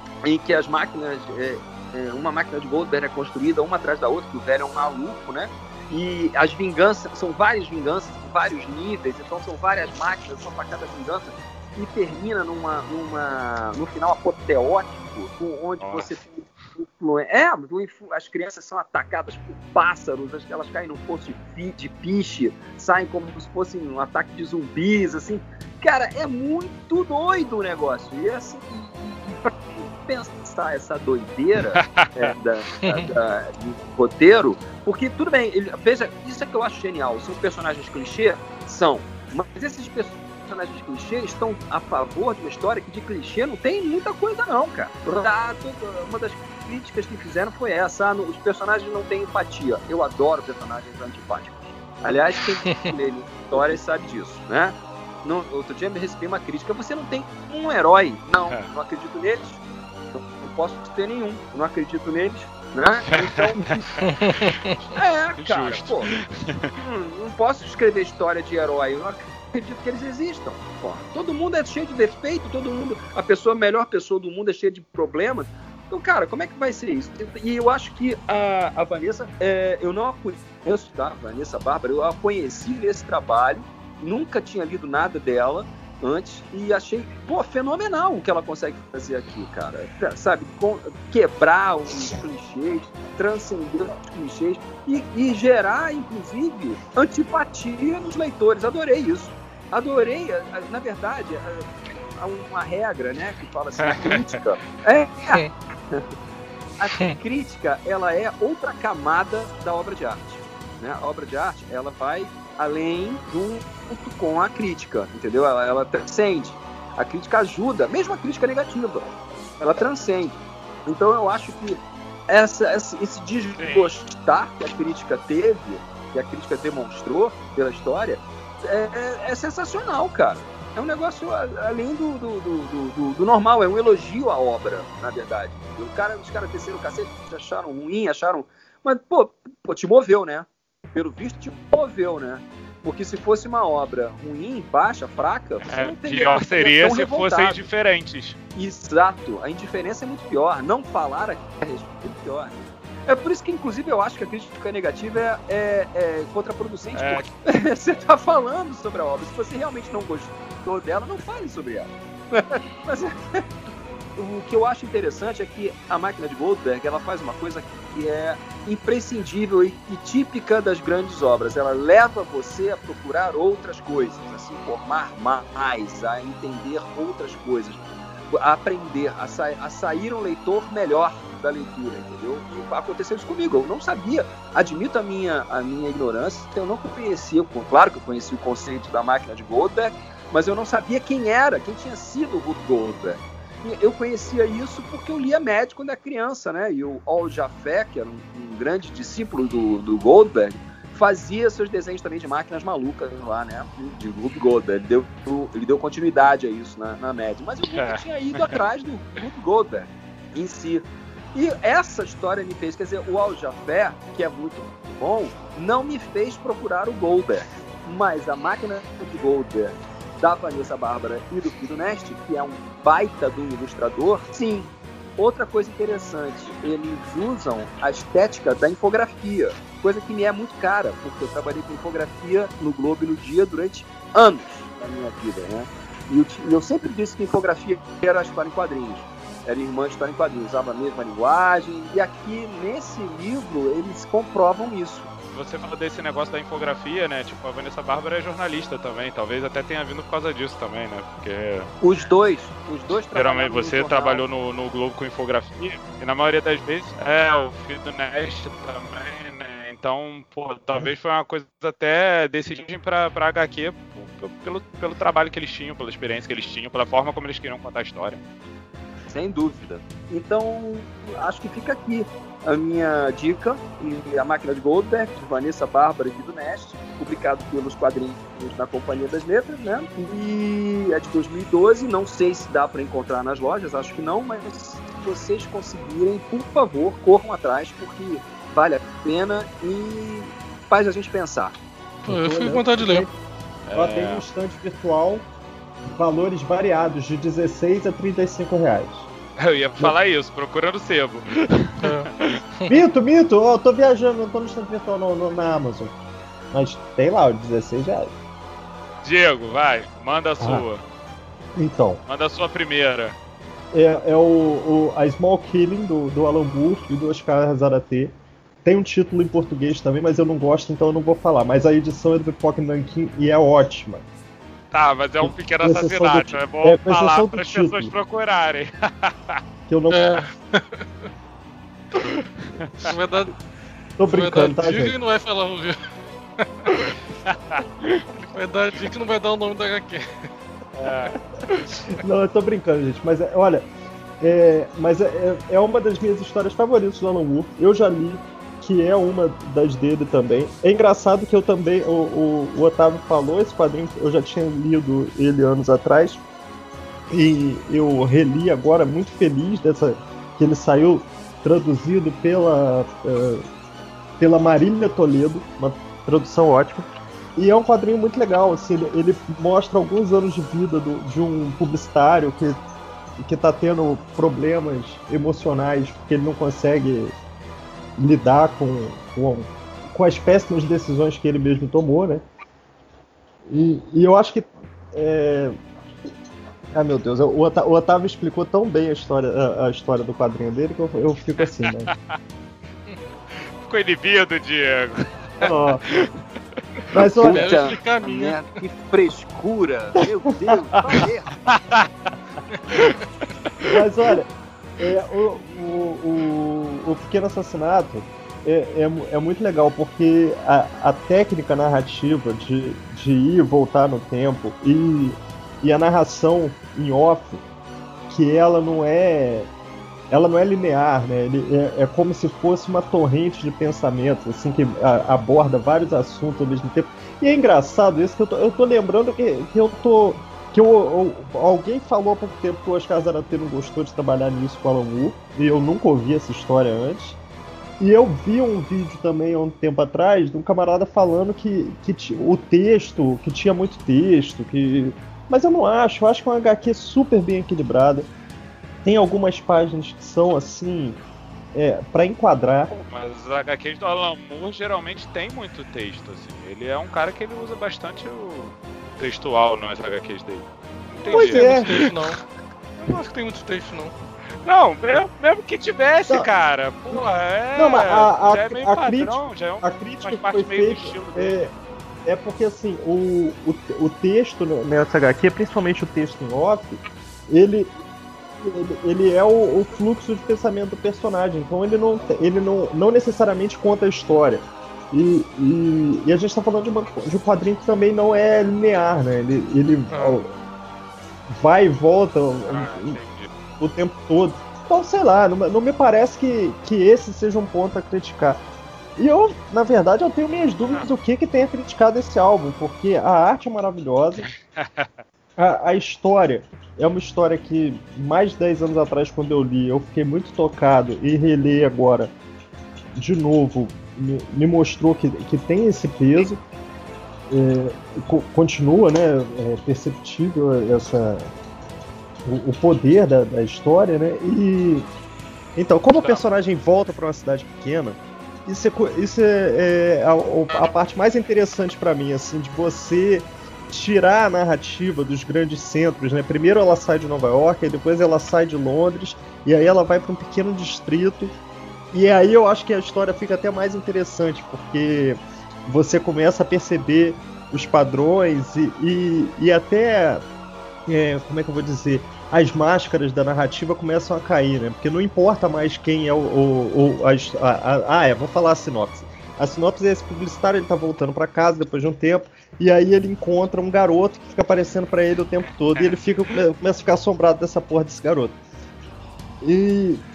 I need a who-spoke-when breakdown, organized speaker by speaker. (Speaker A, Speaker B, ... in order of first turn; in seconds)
Speaker A: 0.2-59.6, 60.1-64.0, 65.0-66.1, 66.8-106.1, 106.8-119.1, 119.6-147.6, 148.6-163.4, 164.2-245.1, 251.8-254.2, 269.1-291.6, 397.2-401.4
Speaker B: 15.8-16.2, 31.8-32.3, 63.1-64.4, 65.4-66.8, 103.8-104.3, 123.6-123.9, 145.6-148.4, 156.9-157.3, 207.8-208.6, 245.3-251.7, 253.1-268.2, 293.7-294.2, 299.4-302.4, 309.0-310.8, 312.1-313.2, 324.7-329.4, 332.6-332.9, 337.3-338.1, 340.8-341.7, 391.4-392.1, 393.6-396.1, 401.5-402.1, 402.7-403.0, 452.7-462.0, 464.4-471.4, 492.5-493.3, 504.3-504.9, 525.9-526.2
Speaker C: 32.8-33.1, 64.0-64.6, 292.1-293.1, 301.8-302.1, 329.9-330.9, 332.8-333.3, 334.1-335.8, 336.4-336.9, 338.3-340.1, 397.2-398.4, 461.0-462.2, 462.8-463.9, 489.9-490.2
Speaker D: 292.0-293.1, 293.7-295.2, 295.9-299.1, 302.7-305.9, 306.5-308.1, 311.6-312.0, 313.7-318.1, 318.6-324.0, 325.2-327.9, 329.7-330.1, 334.0-335.0, 341.9-343.7, 344.2-356.2, 357.1-363.4, 364.2-366.9, 367.4-372.6, 373.2-377.1, 378.0-382.2, 383.5-385.6, 386.7-391.9, 395.4-395.9, 396.9-397.5, 400.4-401.1, 403.6-417.4, 418.1-419.5, 420.1-437.2, 437.8-448.1, 448.8-451.0, 451.5-452.7, 461.1-461.9, 467.6-471.5, 472.1-477.7, 478.4-490.3, 491.3-493.0, 493.6-498.4, 499.0-504.3, 505.4-512.1, 513.0-516.4, 517.3-521.3, 522.2-524.9, 525.6-541.3, 541.9-550.2, 550.9-568.4, 569.4-570.0